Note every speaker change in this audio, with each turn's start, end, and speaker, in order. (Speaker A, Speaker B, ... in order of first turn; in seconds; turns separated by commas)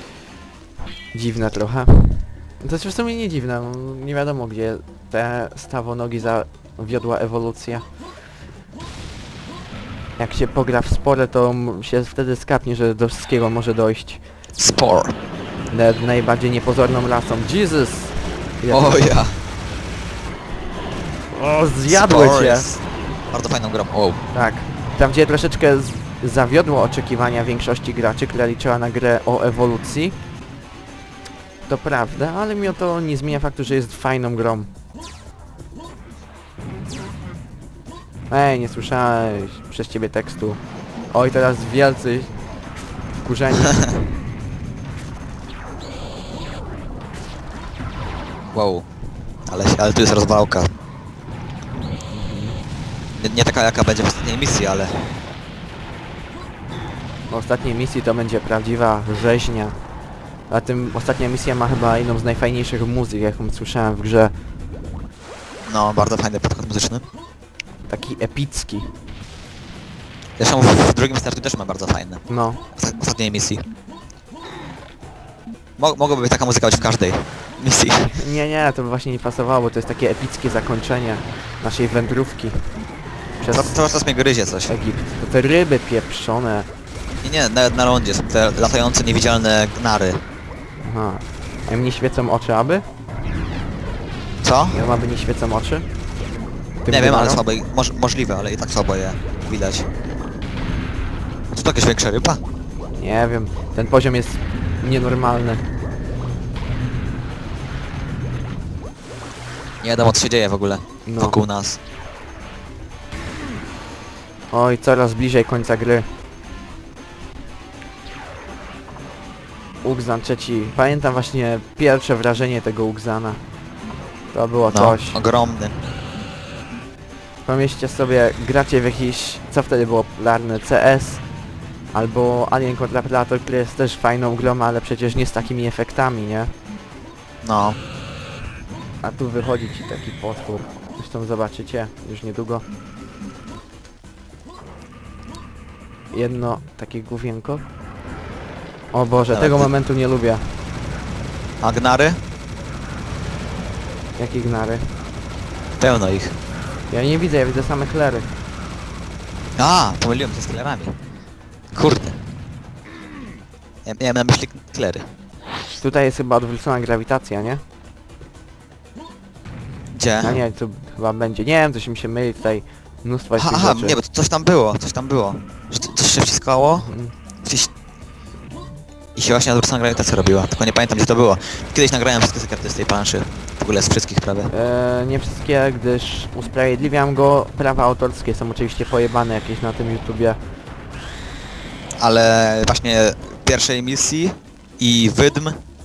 Speaker A: 1.1-7.9, Speaker A: 10.2-14.3, Speaker B: 14.6-15.2, Speaker A: 15.7-19.1, Speaker B: 18.7-19.4, Speaker A: 21.3-22.7, Speaker B: 21.9-24.2, Speaker A: 24.3-30.2, Speaker A: 31.6-34.7, Speaker A: 38.3-42.4, Speaker A: 43.2-43.9, Speaker B: 48.5-48.9, Speaker B: 49.5-50.7, Speaker A: 52.1-52.6, Speaker B: 53.2-55.2, Speaker A: 57.3-59.8, Speaker A: 60.5-64.3, Speaker B: 65.7-67.0, Speaker A: 67.9-69.0, Speaker B: 70.4-73.6, Speaker A: 72.3-72.6, Speaker B: 75.8-78.2, Speaker A: 78.1-82.8, Speaker A: 83.4-83.9, Speaker B: 83.5-84.8, Speaker A: 84.7-86.7, Speaker B: 87.2-90.2, Speaker A: 90.8-92.9, Speaker B: 94.4-94.8, Speaker A: 94.7-95.9, Speaker A: 96.8-97.4, Speaker B: 96.9-99.9, Speaker B: 101.5-102.4, Speaker A: 103.0-105.7, Speaker B: 109.8-111.8, Speaker A: 111.1-111.4, Speaker A: 114.5-116.1, Speaker A: 119.8-123.4, Speaker A: 124.3-125.2, Speaker B: 124.7-125.8, Speaker A: 127.5-131.3, Speaker A: 131.9-136.5, Speaker B: 137.4-137.8, Speaker A: 139.0-142.7, Speaker A: 146.1-147.7, Speaker A: 148.9-150.5, Speaker B: 149.3-149.7, Speaker B: 151.6-152.2, Speaker A: 154.2-154.9, Speaker B: 155.8-156.4, Speaker A: 156.9-158.3, Speaker B: 159.6-160.9, Speaker B: 161.7-162.2, Speaker B: 163.8-165.1, Speaker A: 165.6-167.6, Speaker B: 169.9-170.4, Speaker A: 170.2-174.0, Speaker B: 173.4-176.9, Speaker A: 176.7-177.2, Speaker B: 177.4-177.7, Speaker B: 179.2-184.5, Speaker A: 184.5-190.4, Speaker B: 192.0-195.6